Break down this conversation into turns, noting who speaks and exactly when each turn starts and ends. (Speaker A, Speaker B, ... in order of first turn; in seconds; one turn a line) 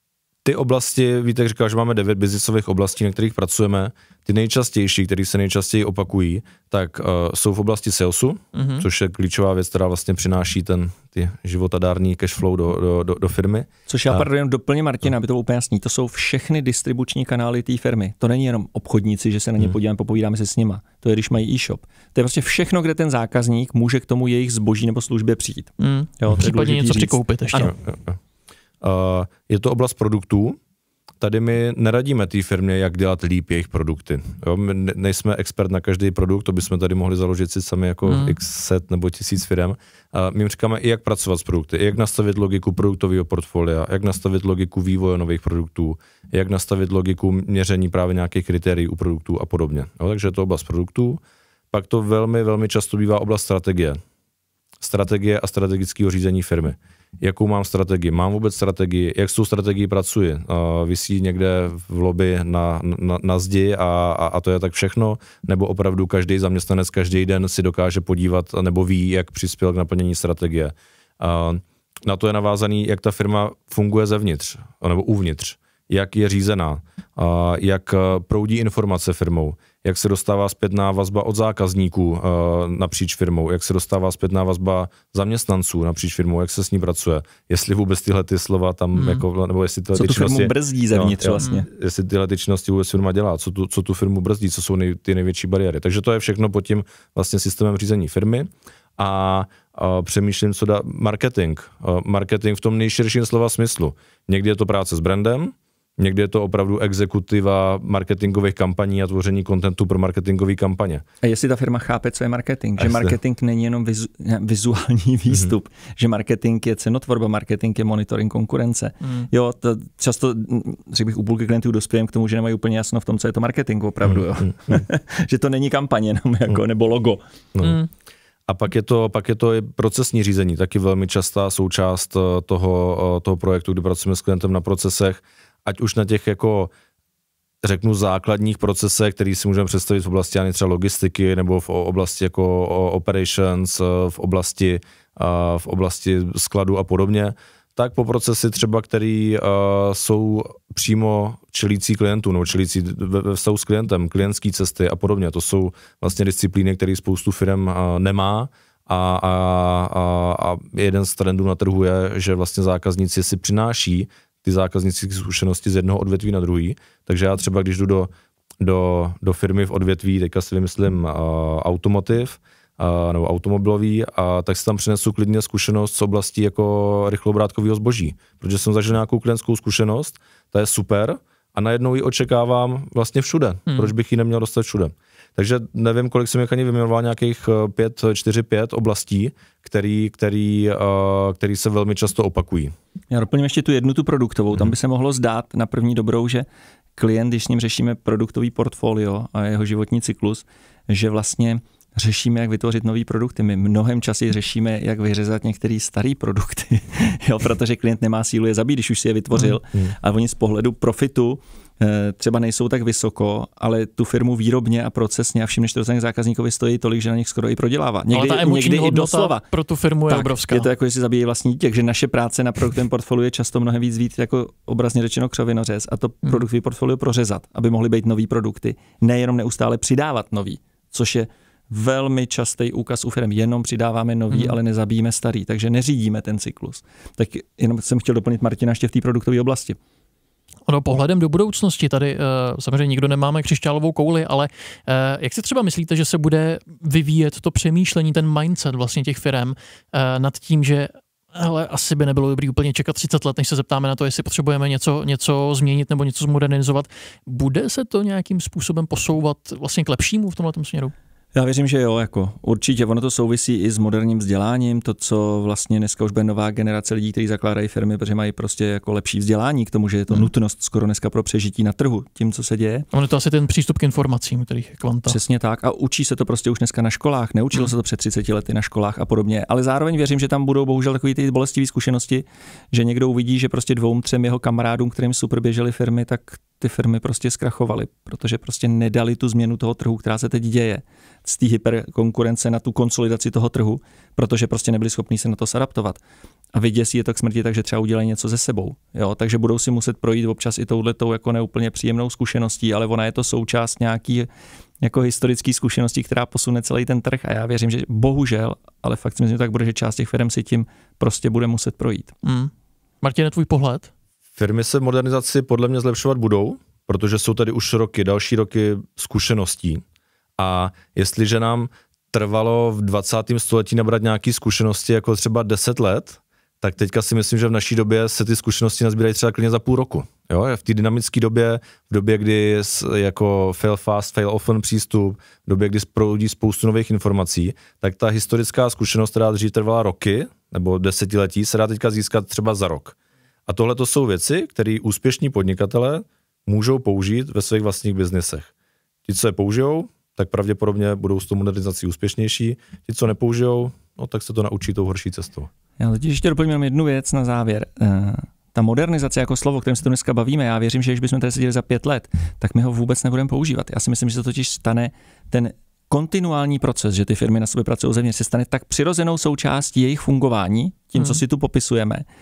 Speaker A: 0.5-14.3
Speaker B: 8.5-8.9
Speaker C: 13.9-27.7
Speaker B: 25.8-27.7
Speaker A: 27.6-28.2
Speaker A: 28.8-30.6
Speaker A: 31.2-51.2
Speaker B: 38.1-38.4
Speaker A: 51.7-54.0
Speaker A: 54.8-111.0
Speaker B: 89.0-89.2
Speaker C: 89.9-91.7
Speaker C: 111.2-127.2
Speaker A: 112.8-113.1
Speaker A: 124.1-124.8
Speaker A: 127.5-127.8
Speaker A: 128.5-136.7
Speaker A: 137.6-192.7
Speaker C: 193.1-219.4
Speaker B: 218.1-220.7
Speaker C: 220.1-239.8
Speaker B: 234.3-234.6
Speaker B: 240.7-260.9
Speaker C: 261.4-272.9
Speaker B: 272.9-275.2
Speaker C: 275.1-296.0
Speaker C: 296.6-304.3
Speaker C: 304.8-312.1
Speaker B: 312.2-312.5
Speaker B: 313.0-313.9
Speaker A: 314.4-319.8
Speaker A: 320.4-343.0
Speaker A: 343.5-348.5
Speaker A: 349.1-355.5
Speaker C: 355.8-372.1
Speaker B: 371.0-371.2